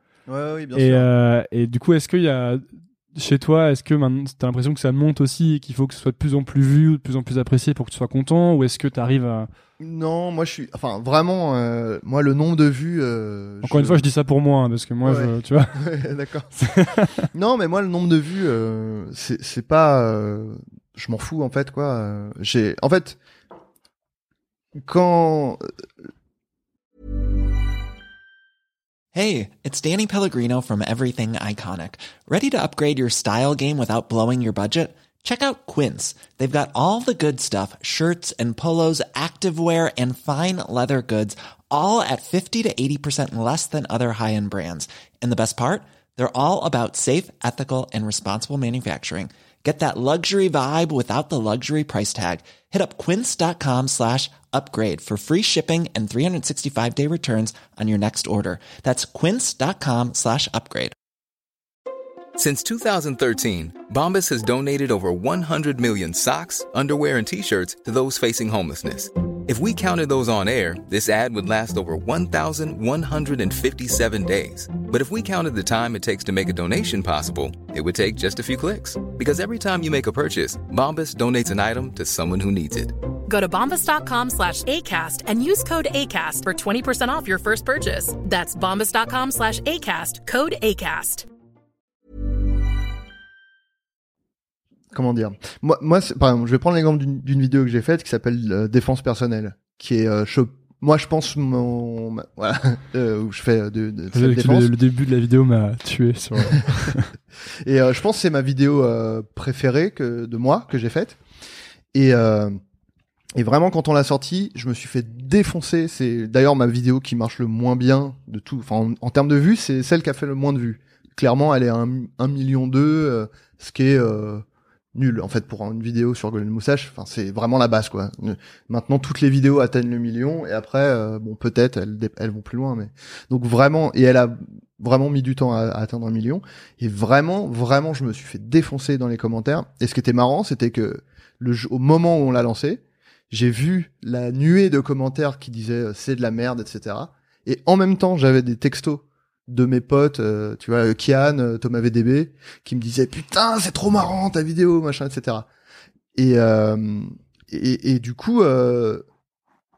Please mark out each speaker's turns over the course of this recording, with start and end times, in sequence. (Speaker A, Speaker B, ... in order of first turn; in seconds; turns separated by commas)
Speaker A: 0.3-1.1, Speaker B: 0.7-9.5, Speaker A: 9.8-14.1, Speaker B: 13.6-15.8, Speaker A: 15.0-16.5, Speaker B: 16.6-17.3, Speaker A: 17.3-23.2, Speaker A: 24.8-25.6, Speaker C: 29.1-60.9, Speaker D: 62.4-82.9, Speaker E: 83.3-91.2, Speaker A: 94.9-104.7, Speaker B: 104.1-107.1, Speaker A: 107.6-111.2, Speaker A: 111.9-112.6, Speaker A: 113.3-155.5, Speaker A: 156.1-159.0